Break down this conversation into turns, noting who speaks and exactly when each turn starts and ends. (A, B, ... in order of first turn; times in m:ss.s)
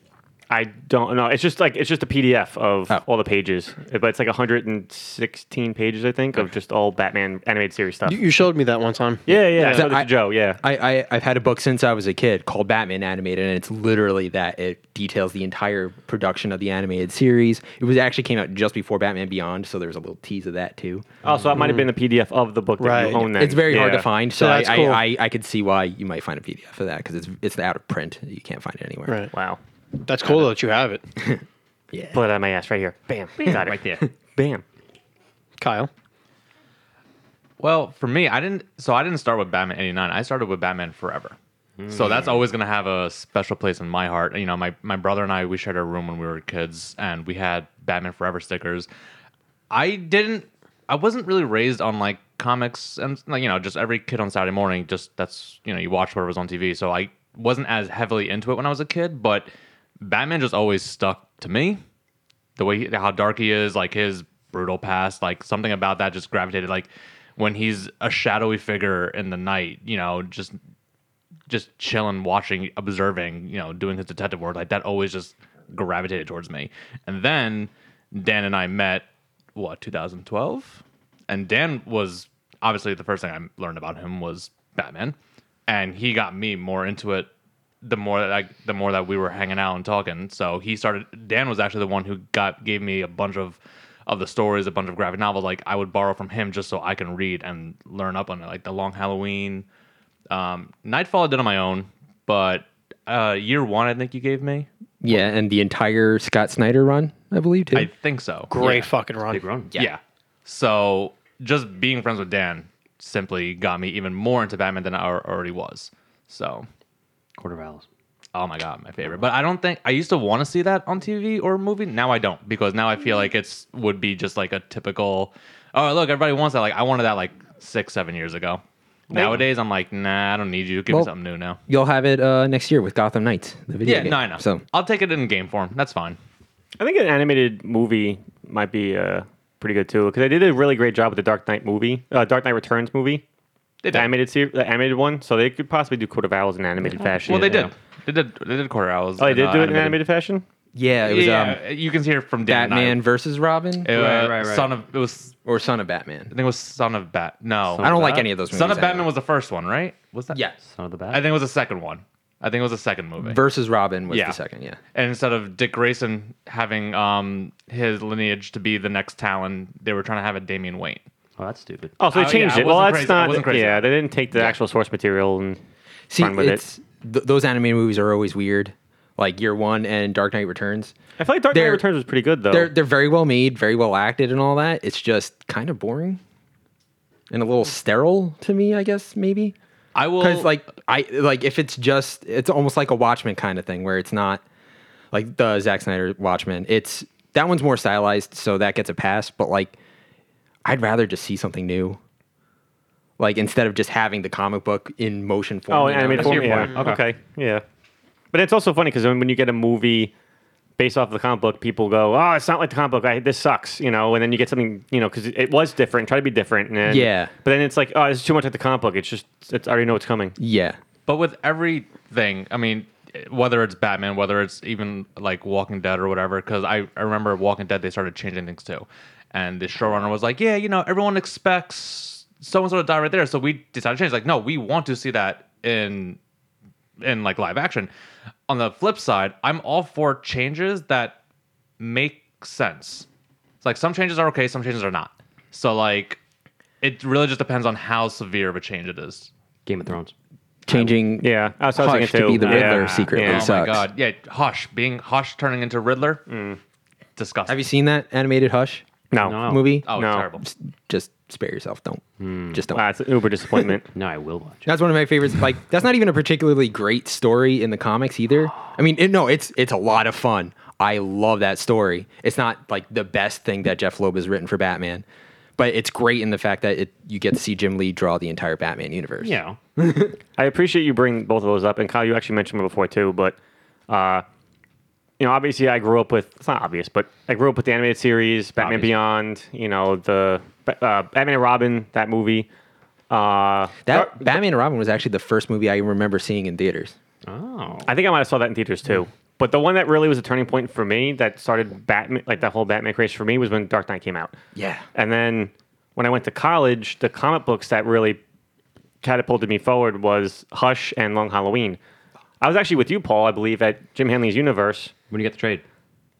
0:00.5-0:08.2 A
0:08.0-0:09.8 B
0:09.3-0:10.6 A
0:09.6-0:10.1 C
0:10.6-0:21.1 C
0:21.2-0:24.1 A
0:21.6-0:21.9 B
0:22.8-0:23.4 B
0:23.3-0:29.2 C
0:24.3-0:25.0 B
0:29.0-0:29.3 B
0:29.3-0:29.6 A
0:30.0-0:31.0 B
0:31.9-0:32.2 C
0:32.1-0:34.6 A
0:33.4-0:34.0 D
0:35.6-0:35.9 B
0:37.6-0:41.4 E
0:41.8-0:42.4 D
0:41.9-0:48.9 E
0:49.7-0:59.5 E
1:00.0-1:01.8 E
1:02.6-1:10.6 E
1:11.5-1:25.2 E
1:25.7-1:27.3 E
1:27.8-1:39.6 E
1:40.3-1:44.7 E
1:45.0-1:47.9 C
1:47.7-1:48.8 E
1:48.5-1:49.4 B
1:48.6-1:49.7 D
1:49.7-1:56.7 E
1:57.4-1:57.8 D
1:58.3-2:11.6 E
2:11.7-2:14.6 C
2:13.8-2:16.2 E
2:16.8-2:23.2 A
2:23.8-2:24.1 E
2:23.9-2:27.7 A
2:26.8-2:27.7 D
2:27.2-2:30.0 E
2:29.2-2:30.4 A
2:30.8-2:31.6 C
2:31.0-2:33.0 E
2:32.4-2:33.9 C
2:33.8-2:35.4 E
2:33.9-2:34.7 D
2:35.4-2:36.3 C
2:36.3-2:40.4 E
2:37.7-2:38.3 D
2:37.8-2:39.1 C
2:40.6-2:41.3 D
2:41.1-2:43.4 E
2:43.2-2:44.8 C
2:44.1-2:44.4 E
2:44.9-2:51.0 E
2:51.4-2:52.0 D
2:52.0-2:55.6 A
2:52.1-2:53.9 E
2:56.1-3:00.9 C
2:56.2-2:56.6 A
3:01.2-3:02.7 A
3:01.5-3:01.8 C
3:02.5-3:06.2 C
3:07.3-3:09.5 C
3:09.9-3:10.5 E
3:10.1-3:14.4 C
3:15.1-3:19.7 C
3:20.6-3:22.0 C
3:23.2-3:26.7 C
3:25.7-3:27.6 A
3:26.1-3:27.0 D
3:28.3-3:30.1 A
3:30.8-3:40.4 A
3:36.8-3:37.3 C
3:40.4-3:40.8 C
3:41.1-3:56.2 E
3:57.0-3:57.9 E
3:58.5-4:01.2 E
4:01.8-4:03.0 E
4:03.6-4:06.2 E
4:06.8-4:09.3 E
4:09.6-4:10.1 D
4:10.6-4:13.8 C
4:11.2-4:13.5 A
4:12.4-4:12.7 D
4:12.7-4:16.2 E
4:16.3-4:16.6 A
4:17.2-4:17.6 E
4:17.5-4:18.9 C
4:19.1-4:20.3 A
4:19.2-4:19.6 D
4:19.4-4:19.9 C
4:19.9-4:20.4 E
4:20.4-4:22.8 C
4:22.2-4:22.6 D
4:22.7-4:23.9 A
4:23.9-4:24.7 D
4:24.6-4:35.0 C
4:35.6-4:39.9 C
4:39.2-4:39.6 D
4:40.4-4:43.4 A
4:43.9-4:44.2 A
4:45.2-4:52.5 A
4:48.6-4:49.0 D
4:53.1-4:54.4 A
4:53.8-4:56.9 C
4:57.2-4:57.9 D
4:57.8-5:04.3 A
5:04.5-5:04.8 C
5:04.9-5:08.2 A
5:09.0-5:11.8 A
5:12.4-5:14.9 A
5:15.1-5:15.6 D